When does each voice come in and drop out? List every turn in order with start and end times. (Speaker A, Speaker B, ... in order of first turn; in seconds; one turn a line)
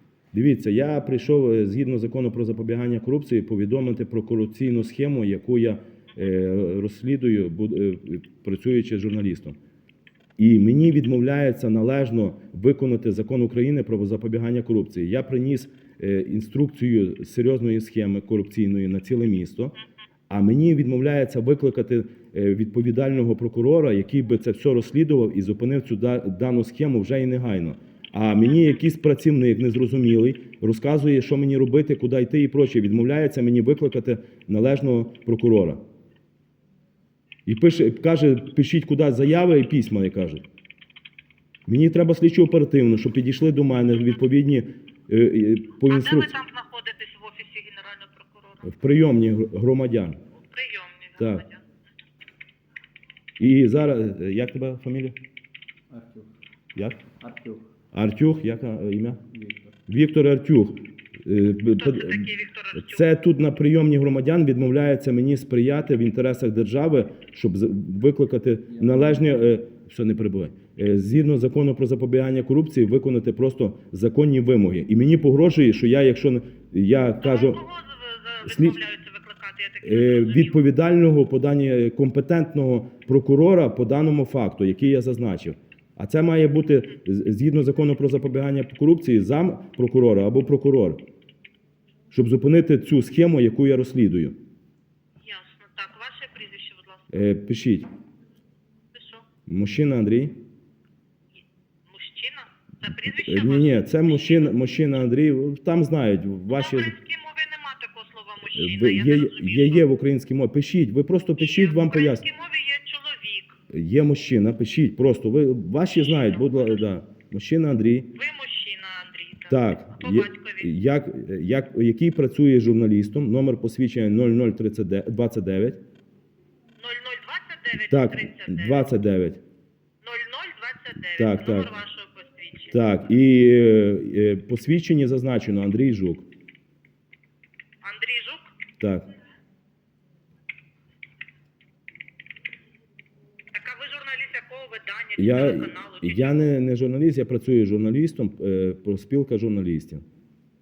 Speaker A: 0.3-9.6
Speaker A: 10.4-19.7
Speaker A: 20.3-35.8
Speaker A: 37.5-40.4
Speaker A: 41.7-46.4
Speaker B: 45.9-48.6
Speaker A: 48.6-50.2
Speaker B: 50.3-51.6
Speaker A: 51.2-51.4
Speaker A: 53.4-55.1
Speaker C: 55.9-56.3
Speaker A: 56.7-57.0
Speaker C: 57.1-57.7
Speaker A: 57.9-59.2
Speaker C: 59.3-59.8
Speaker A: 59.9-77.6
Speaker B: 61.7-63.0
Speaker C: 68.7-69.4
Speaker B: 77.2-80.7
Speaker A: 78.4-78.8
Speaker A: 79.8-91.0
Speaker A: 92.1-94.3
Speaker B: 95.2-97.1
Speaker A: 97.1-97.9
Speaker B: 98.9-99.3
Speaker A: 99.5-100.3
Speaker B: 101.9-104.6
Speaker A: 102.9-106.9
Speaker B: 106.5-109.9
Speaker A: 108.5-112.2
Speaker B: 111.4-113.6
Speaker A: 113.7-118.1
Speaker B: 115.8-116.8
Speaker B: 118.1-120.7
Speaker A: 119.5-125.8
Speaker B: 126.8-128.9
Speaker A: 127.9-129.4
Speaker B: 130.0-132.8
Speaker A: 131.1-131.7
Speaker A: 132.6-136.2
Speaker B: 137.8-138.6
Speaker A: 138.8-139.1
Speaker B: 143.5-146.4
Speaker A: 145.2-150.0